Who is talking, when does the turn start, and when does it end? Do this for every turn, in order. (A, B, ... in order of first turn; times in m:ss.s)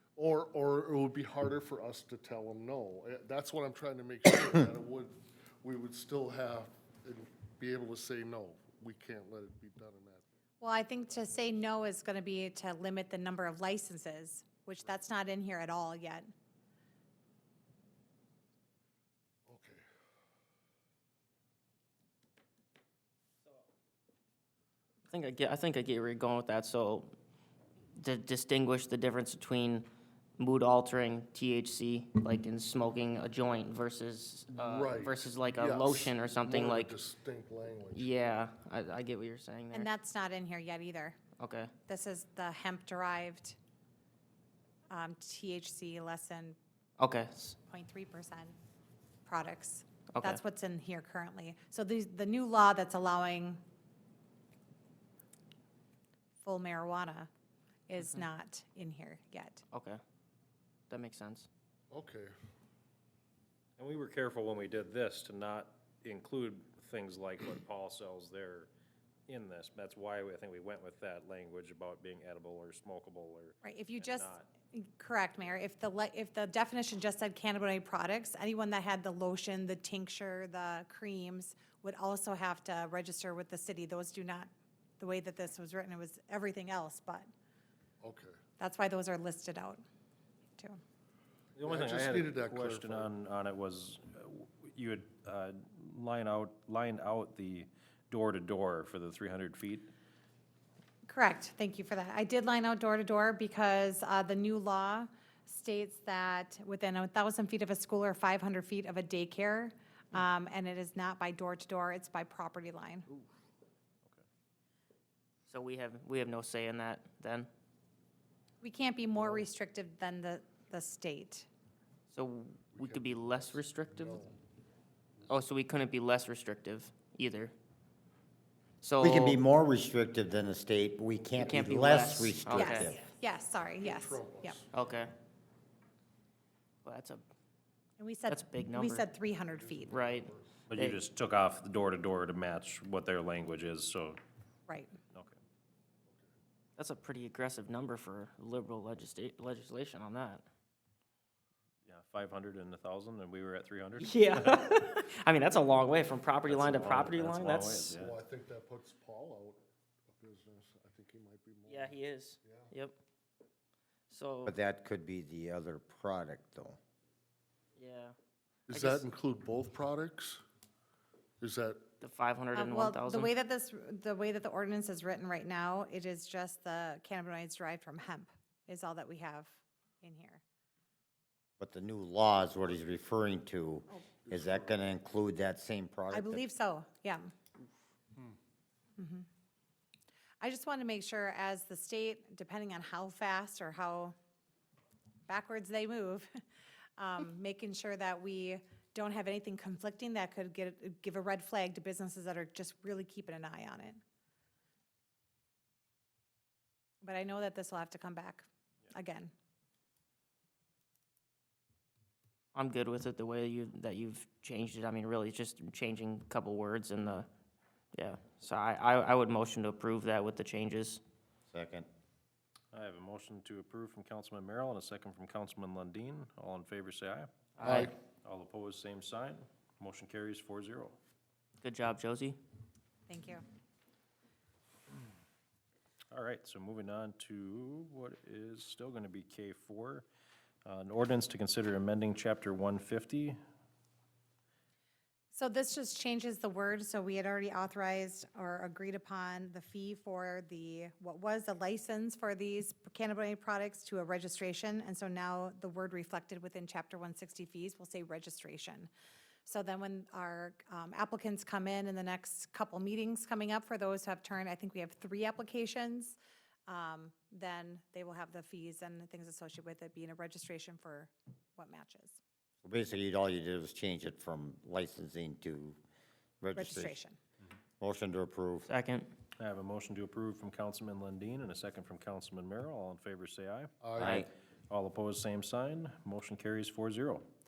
0:00.2-0:10.3 A
0:10.6-0:16.3 B
0:19.5-0:19.8 A
0:25.1-0:27.1 C
0:28.0-0:37.0 C
0:34.6-0:38.1 A
0:37.9-0:39.9 C
0:39.7-0:41.2 B
0:41.4-0:41.7 C
0:41.9-0:43.6 B
0:44.9-0:46.6 B
0:47.0-0:47.6 C
0:47.7-0:48.6 B
0:49.2-0:53.6 B
0:50.2-0:50.4 C
0:56.4-0:57.3 B
0:57.9-0:59.6 B
0:58.0-0:58.3 C
0:59.7-1:00.0 C
1:00.9-1:01.5 C
1:01.9-1:02.3 A
1:03.8-1:08.7 D
1:09.3-1:14.5 D
1:13.6-1:24.5 B
1:25.0-1:27.3 B
1:28.0-1:28.4 A
1:28.6-1:29.8 B
1:31.6-1:39.9 D
1:31.6-1:33.1 A
1:41.1-1:53.1 B
1:55.5-1:57.5 C
1:58.6-2:01.5 B
1:59.2-1:59.5 A
2:02.1-2:04.2 C
2:02.7-2:04.4 A
2:05.3-2:07.6 C
2:08.8-2:09.4 C
2:09.0-2:13.0 E
2:11.4-2:13.0 C
2:12.5-2:14.6 B
2:13.8-2:14.7 A
2:14.7-2:15.1 C
2:16.8-2:17.3 C
2:18.0-2:19.9 B
2:18.3-2:19.1 C
2:19.4-2:20.6 A
2:19.9-2:21.0 C
2:20.7-2:24.2 D
2:24.7-2:25.0 B
2:25.1-2:25.4 D
2:26.1-2:26.3 A
2:26.8-2:30.4 C
2:31.9-2:34.2 D
2:34.0-2:38.0 C
2:36.5-2:38.2 D
2:37.9-2:42.7 A
2:41.7-2:43.0 C
2:44.1-2:44.6 C
2:44.5-2:46.8 E
2:47.8-2:48.2 C
2:48.7-2:50.4 A
2:48.7-2:49.0 C
2:51.4-2:51.8 A
2:52.0-2:53.3 C
2:52.5-3:00.4 B
3:01.6-3:06.4 E
3:04.2-3:04.8 A
3:06.1-3:07.3 B
3:09.0-3:09.3 B
3:10.4-3:14.2 B
3:15.3-3:16.4 B
3:17.0-3:24.0 B
3:27.0-3:29.3 B
3:32.5-3:37.3 C
3:37.9-3:41.0 C
3:41.5-3:41.9 E
3:42.7-3:51.0 D
3:47.6-3:47.9 C
3:47.6-3:47.9 A
3:51.6-3:52.4 C
3:53.1-3:53.4 B
3:56.1-4:00.1 D
4:00.6-4:03.4 D
4:05.3-4:18.9 B
4:19.4-4:32.2 B
4:32.6-4:35.8 E
4:36.4-4:37.0 E
4:36.6-4:37.2 B
4:37.8-4:38.7 E
4:38.7-4:39.1 C
4:39.4-4:47.3 D
4:43.8-4:44.3 A
4:44.0-4:44.3 C